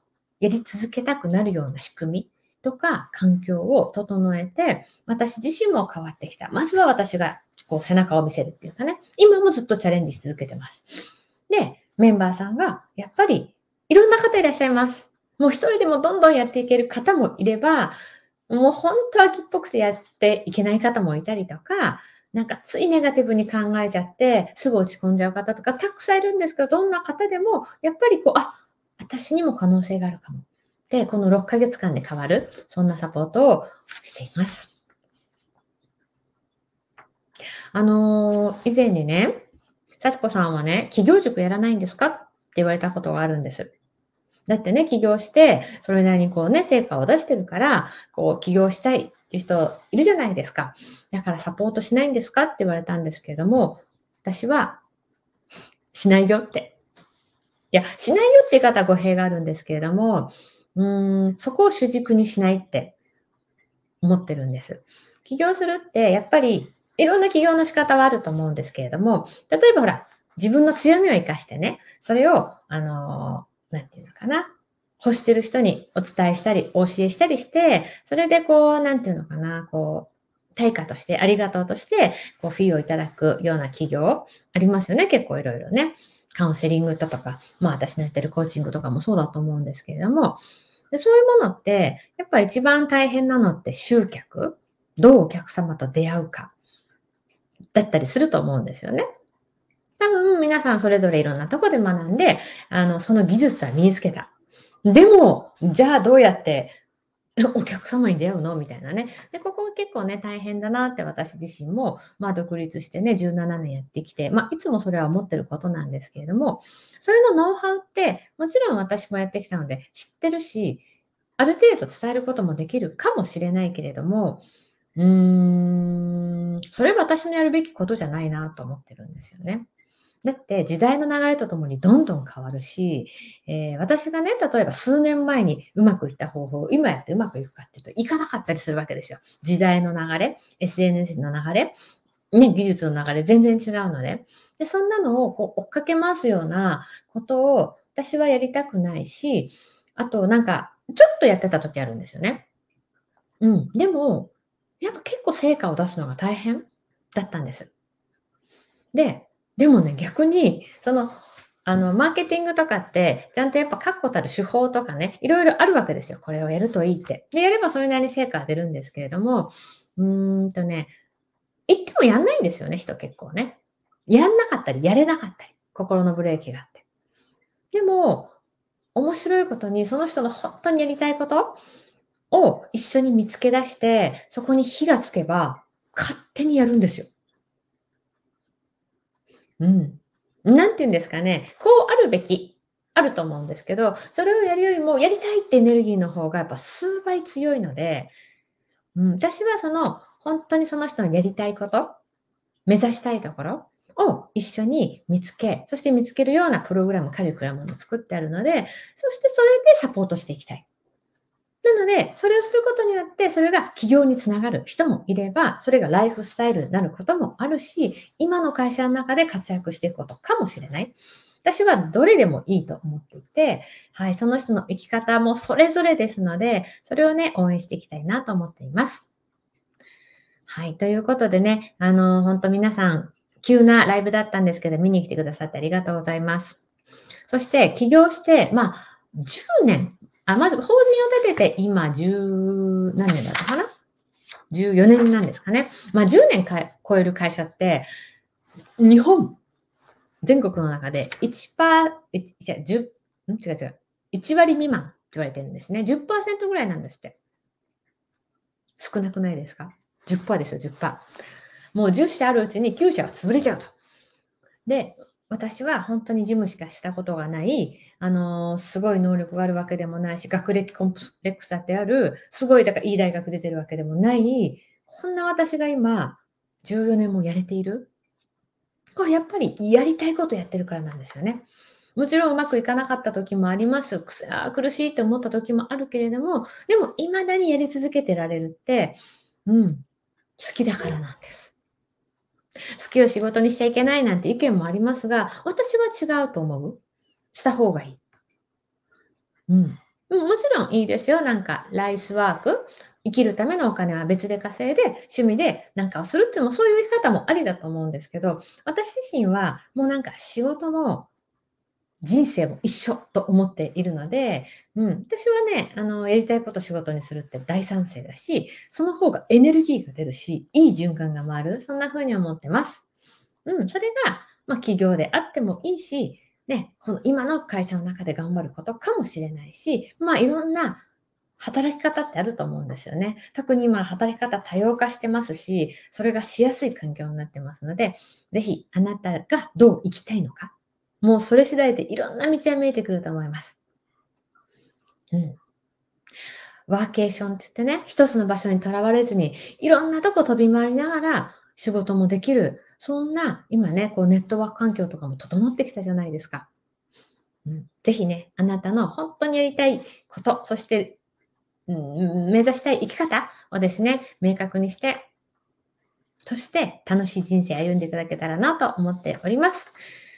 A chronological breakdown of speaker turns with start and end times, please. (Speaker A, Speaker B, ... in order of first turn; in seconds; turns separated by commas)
Speaker A: 0.4-34.7, Speaker A: 37.7-39.5, Speaker A: 40.0-43.7, Speaker A: 44.5-54.8, Speaker A: 55.9-56.8, Speaker A: 57.7-63.0, Speaker A: 64.0-96.5, Speaker A: 97.7-99.1, Speaker A: 100.0-104.3, Speaker A: 104.8-106.8, Speaker A: 107.4-120.8, Speaker A: 121.4-124.5, Speaker A: 125.0-129.7, Speaker A: 130.2-141.8, Speaker A: 142.3-152.5, Speaker A: 153.4-157.7, Speaker A: 158.9-170.9, Speaker A: 171.7-176.8, Speaker A: 177.7-178.3, Speaker A: 178.9-181.6, Speaker A: 182.3-187.1, Speaker A: 189.6-198.2, Speaker A: 198.9-202.0, Speaker A: 202.7-210.7, Speaker A: 211.6-229.1, Speaker A: 230.5-236.6, Speaker A: 237.3-243.7, Speaker A: 244.5-247.9, Speaker A: 248.8-249.4, Speaker A: 250.2-257.2, Speaker A: 258.8-261.0, Speaker A: 261.7-263.7, Speaker A: 264.7-277.9, Speaker A: 278.9-281.4, Speaker A: 282.0-289.9, Speaker A: 290.4-291.5, Speaker A: 292.8-296.8, Speaker A: 297.3-298.0, Speaker A: 299.5-311.1, Speaker A: 312.0-322.8, Speaker A: 323.5-330.8, Speaker A: 331.4-343.6, Speaker A: 345.1-345.4, Speaker A: 346.7-356.5, Speaker A: 357.5-361.0, Speaker A: 361.7-365.1, Speaker A: 366.2-369.8